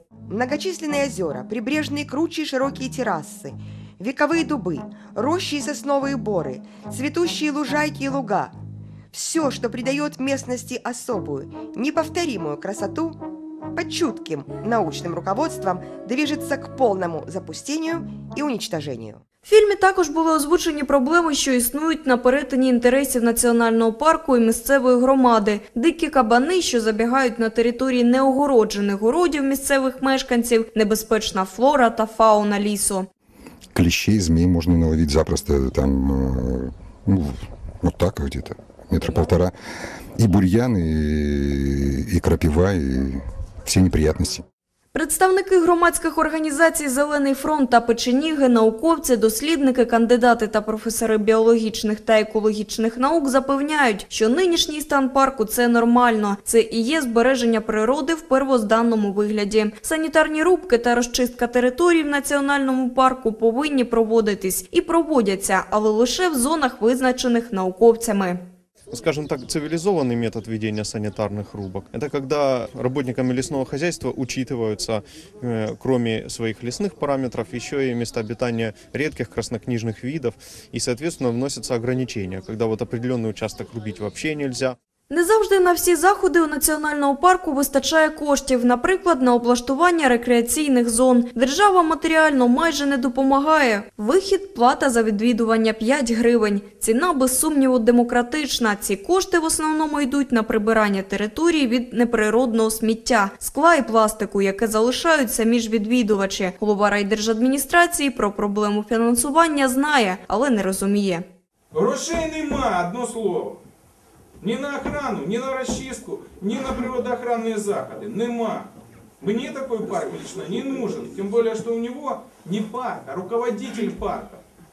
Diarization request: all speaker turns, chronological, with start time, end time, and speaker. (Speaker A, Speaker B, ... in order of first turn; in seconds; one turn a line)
Speaker A: 0.3-8.5
Speaker A: 9.1-13.2
Speaker A: 13.7-19.2
Speaker B: 19.4-33.1
Speaker C: 33.7-39.5
Speaker C: 40.2-44.4
Speaker B: 44.9-68.4
Speaker D: 68.9-84.8
Speaker B: 85.1-111.2
Speaker E: 111.7-113.6
Speaker E: 114.4-124.4